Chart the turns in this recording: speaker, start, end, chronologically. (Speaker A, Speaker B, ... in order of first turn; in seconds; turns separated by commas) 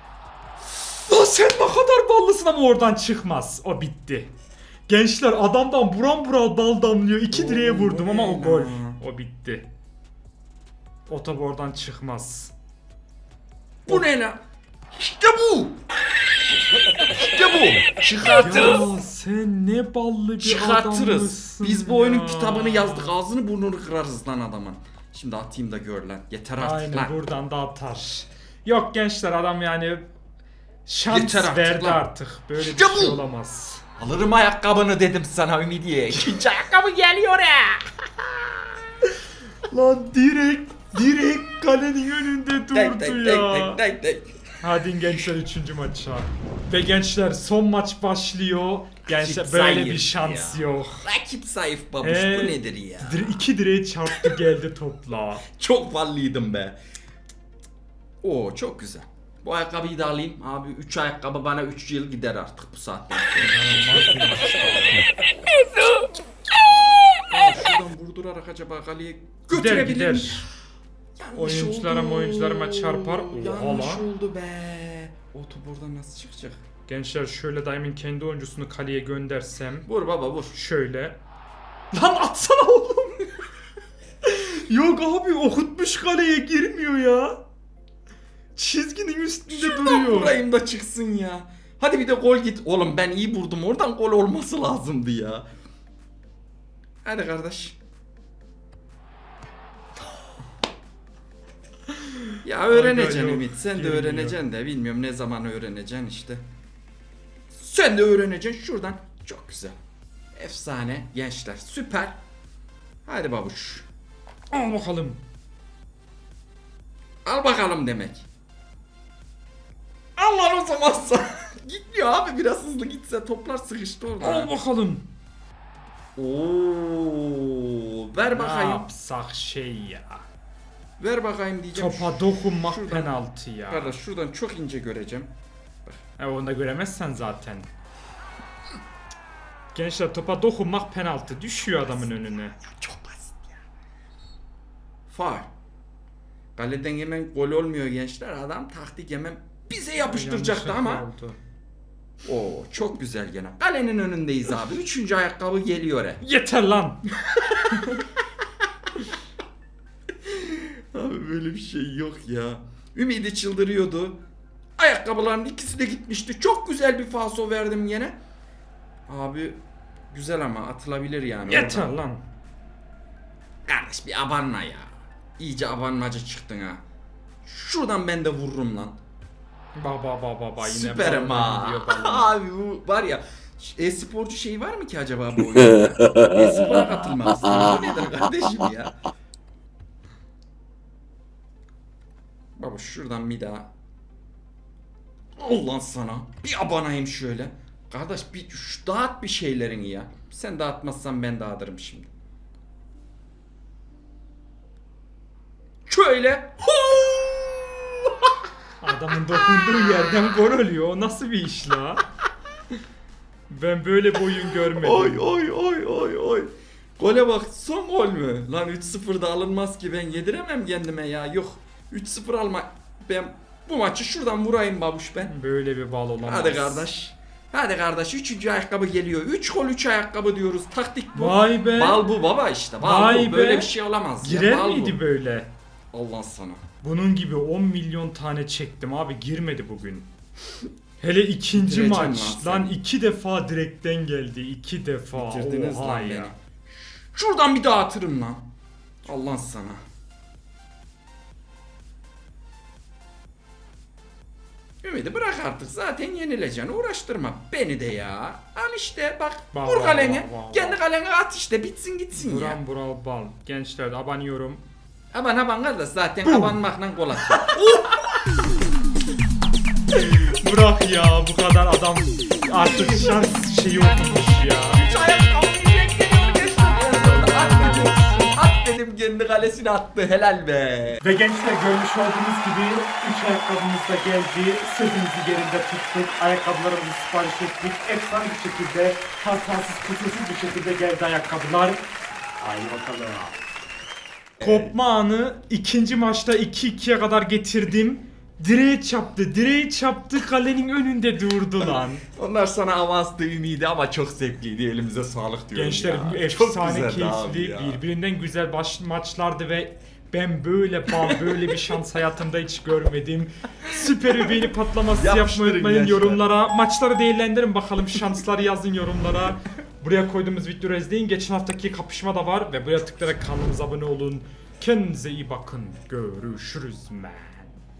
Speaker A: 0.7-4.3, Speaker A: 4.9-9.7, Speaker B: 7.3-9.0, Speaker A: 11.1-12.5, Speaker B: 13.9-14.4, Speaker B: 14.9-15.8, Speaker B: 17.1-19.0, Speaker A: 18.2-23.1, Speaker B: 20.4-27.1, Speaker A: 26.6-30.1, Speaker A: 30.9-33.8, Speaker B: 31.1-32.0, Speaker B: 32.6-33.2, Speaker B: 34.0-38.6, Speaker A: 39.7-43.8, Speaker B: 42.7-44.3, Speaker A: 44.6-51.0, Speaker B: 49.1-53.4, Speaker A: 52.0-55.4, Speaker B: 55.5-56.8, Speaker B: 58.2-64.1, Speaker A: 63.4-65.1, Speaker B: 67.3-70.5, Speaker A: 69.5-70.5, Speaker B: 71.2-76.6, Speaker A: 71.3-74.0, Speaker A: 76.9-79.9, Speaker B: 79.9-80.6, Speaker A: 80.5-81.2, Speaker A: 81.9-83.3, Speaker A: 84.2-87.4, Speaker A: 88.6-90.4, Speaker B: 89.5-95.5, Speaker B: 97.0-97.8, Speaker B: 102.4-106.4, Speaker A: 102.7-104.4, Speaker B: 107.5-109.8, Speaker B: 110.3-112.2, Speaker B: 113.1-113.9, Speaker A: 114.5-115.2, Speaker B: 117.2-118.2, Speaker B: 120.2-124.5, Speaker A: 124.2-125.1, Speaker B: 126.2-128.9, Speaker A: 128.3-130.2, Speaker B: 131.0-135.3, Speaker A: 131.7-133.9, Speaker A: 136.2-137.7, Speaker A: 139.8-142.6, Speaker B: 142.7-143.3, Speaker B: 145.1-145.5, Speaker B: 146.6-151.1, Speaker A: 150.0-151.4, Speaker B: 152.2-156.2, Speaker A: 156.2-158.0, Speaker B: 160.2-164.2, Speaker B: 164.8-168.1, Speaker B: 169.1-171.9, Speaker A: 171.5-172.2, Speaker B: 173.7-176.8, Speaker B: 177.4-179.0, Speaker A: 179.8-182.3, Speaker B: 180.6-188.9, Speaker B: 192.6-193.7, Speaker B: 195.4-202.1, Speaker B: 205.9-208.1, Speaker A: 208.8-212.0, Speaker A: 213.5-215.3, Speaker B: 214.8-225.3, Speaker A: 225.2-226.9, Speaker B: 226.2-235.0, Speaker A: 231.1-232.0, Speaker A: 232.8-235.5, Speaker B: 235.9-236.6, Speaker A: 236.8-240.1, Speaker A: 241.0-246.3, Speaker B: 241.5-242.7, Speaker B: 245.1-248.4, Speaker B: 249.1-249.8, Speaker B: 254.8-262.6, Speaker A: 259.5-260.8, Speaker A: 262.1-264.6, Speaker B: 265.1-268.1, Speaker A: 266.2-266.6, Speaker A: 267.2-267.6, Speaker A: 269.9-274.8, Speaker B: 272.5-273.3, Speaker B: 274.6-281.0, Speaker A: 277.0-278.3, Speaker A: 281.0-291.8, Speaker A: 292.4-293.4, Speaker B: 294.4-294.7, Speaker A: 294.4-302.0, Speaker B: 301.6-307.8, Speaker A: 305.5-327.6, Speaker B: 310.9-311.6, Speaker B: 313.8-316.2